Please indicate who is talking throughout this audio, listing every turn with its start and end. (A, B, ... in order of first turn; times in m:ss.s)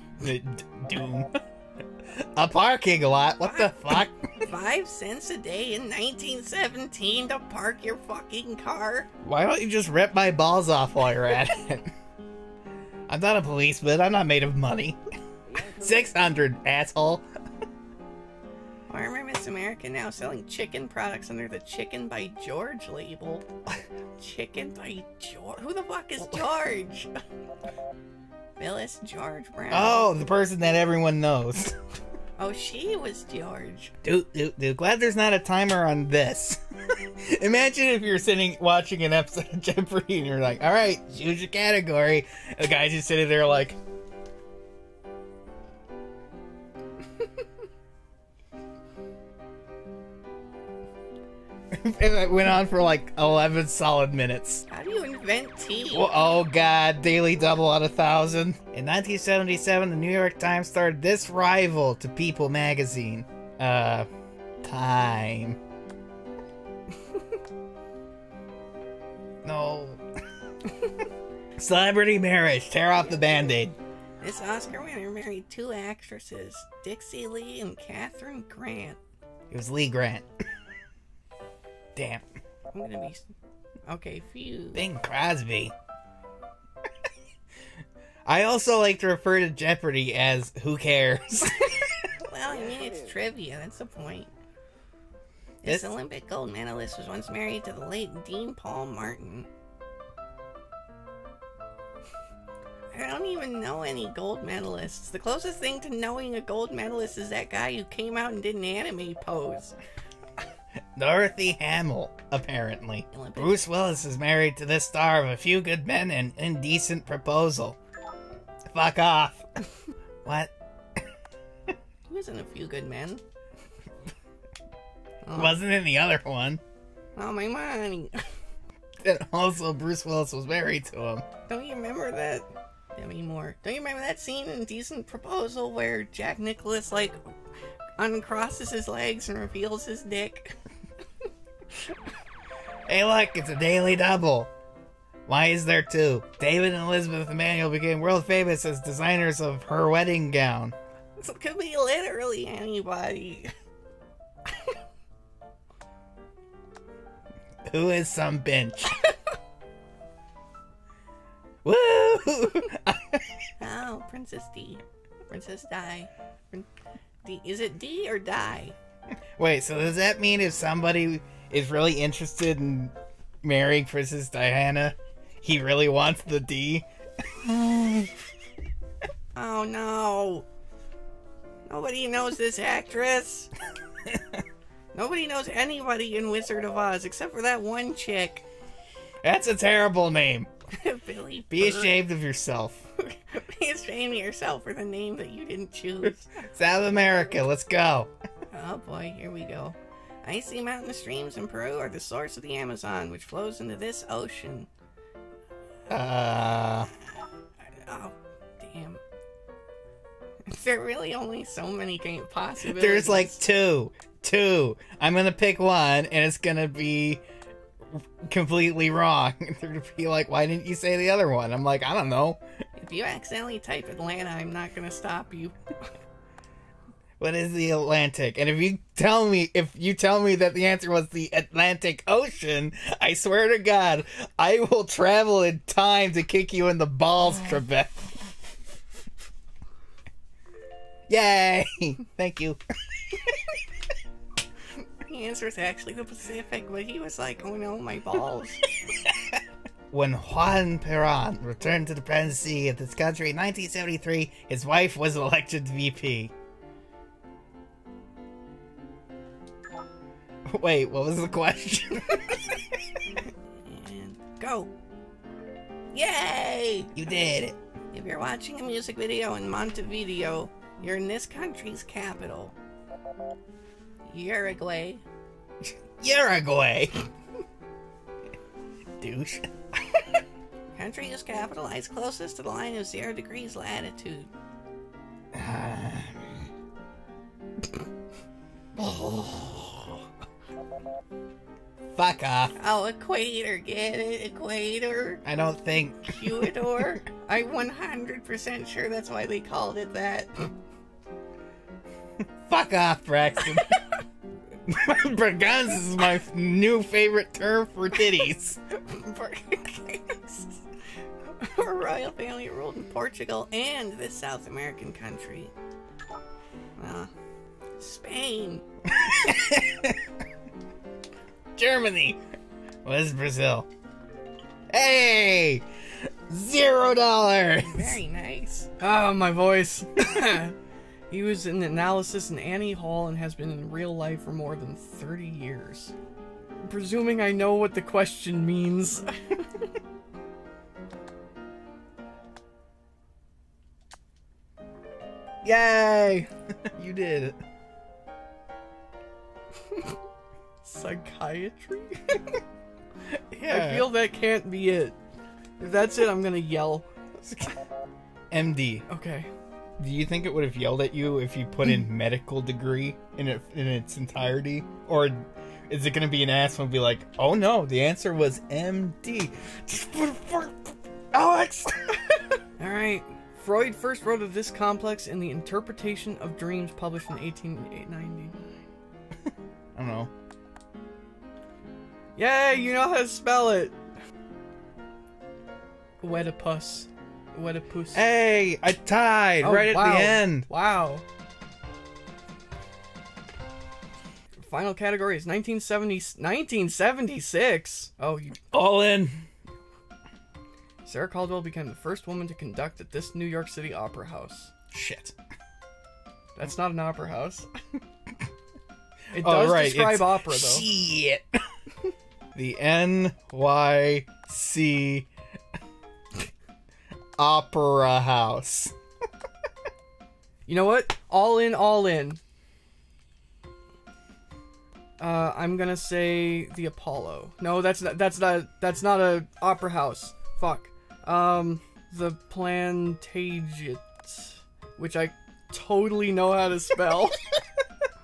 0:00.2-0:01.3 A
0:02.1-0:04.4 A
0:03.4-0:09.1 B
0:09.2-0:11.9 A
0:13.1-0:15.0 A
0:15.5-0:17.2 A
0:18.9-0:23.5 B
0:24.2-0:27.1 B
0:28.6-0:30.2 B
0:29.7-0:31.8 A
0:32.4-0:33.9 B
0:34.0-0:43.8 A
0:51.7-0:54.6 A
0:54.7-0:56.1 B
0:55.9-1:04.1 A
1:04.6-1:05.6 A
1:09.4-1:10.0 A
1:11.6-1:13.8 A
1:14.2-1:19.0 B
1:19.5-1:20.3 A
1:21.9-1:22.3 A
1:22.7-1:23.3 B
1:23.8-1:24.8 B
1:24.7-1:25.7 A
1:28.2-1:32.1 A
1:32.2-1:34.3 B
1:35.6-1:39.5 B
1:35.6-1:35.9 A
1:42.9-1:49.8 B
1:51.0-1:57.8 A
1:53.1-1:53.6 B
1:58.7-1:59.5 A
2:00.2-2:01.0 A
2:02.1-2:03.2 B
2:05.2-2:05.6 B
2:05.3-2:06.6 A
2:07.2-2:08.2 B
2:09.0-2:11.2 A
2:11.5-2:17.2 B
2:18.0-2:20.6 B
2:22.9-2:24.5 A
2:25.3-2:30.8 A
2:31.2-2:33.5 B
2:37.6-2:39.0 A
2:41.6-2:43.5 A
2:43.6-2:46.7 B
2:47.2-2:48.7 B
2:49.4-2:58.1 A
2:59.3-3:00.4 B
3:01.7-3:03.5 B
3:04.1-3:04.4 A
3:04.9-3:08.4 B
3:09.2-3:10.5 A
3:10.7-3:12.0 B
3:11.5-3:12.9 A
3:13.0-3:16.3 B
3:16.0-3:18.1 A
3:18.5-3:24.7 B
3:25.9-3:26.9 A
3:27.7-3:29.0 B
3:30.4-3:33.4 B
3:32.7-3:37.2 A
3:37.9-3:42.4 A
3:42.8-3:45.5 B
3:47.2-3:58.3 A
4:01.1-4:02.6 A
4:05.0-4:08.6 B
4:09.0-4:09.3 A
4:09.9-4:16.3 A
4:20.5-4:22.8 A
4:23.6-4:24.7 B
4:25.9-4:26.9 B
4:27.0-4:27.6 A
4:27.9-4:32.5 B
4:34.1-4:35.0 B
4:35.6-4:36.9 A
4:39.0-4:39.5 A
4:40.7-4:44.3 B
4:45.3-4:46.4 A
4:48.7-4:50.0 A
4:51.9-4:52.5 A
4:52.6-4:55.2 B
4:55.2-4:56.5 A
4:56.1-5:00.5 B
5:02.5-5:03.8 A
5:04.7-5:08.6 A
5:08.8-5:10.6 B
5:11.4-5:15.5 B
5:16.8-5:17.1 B
5:17.8-5:18.6 B
5:18.8-5:20.0 A
5:21.5-5:22.2 A
5:22.8-5:23.7 A
5:24.7-5:25.6 A
5:26.3-5:28.0 A
5:27.6-5:28.7 B
5:28.8-5:30.6 C
5:31.1-5:35.9 C
5:36.6-5:39.5 C
5:45.4-5:47.4 A
5:50.6-5:52.4 C
5:53.1-5:53.9 A
5:53.5-5:55.0 C
5:55.6-5:56.9 C
5:57.2-5:57.6 A
5:58.3-5:58.8 A
5:58.9-5:59.3 C
5:59.8-6:12.0 A
6:12.6-6:18.5 C
6:19.7-6:20.1 A
6:22.2-6:23.8 C
6:26.0-6:28.0 C
6:27.9-6:30.5 A
6:29.4-6:31.0 C
6:34.4-6:38.4 C
6:38.5-6:39.2 A
6:40.8-6:44.5 C
6:44.7-6:45.1 A
6:46.4-6:47.5 C
6:49.1-6:50.7 C
6:49.2-6:51.3 A
6:52.3-6:55.1 A
6:57.2-6:58.7 A
7:00.4-7:02.2 C
7:05.0-7:17.2 C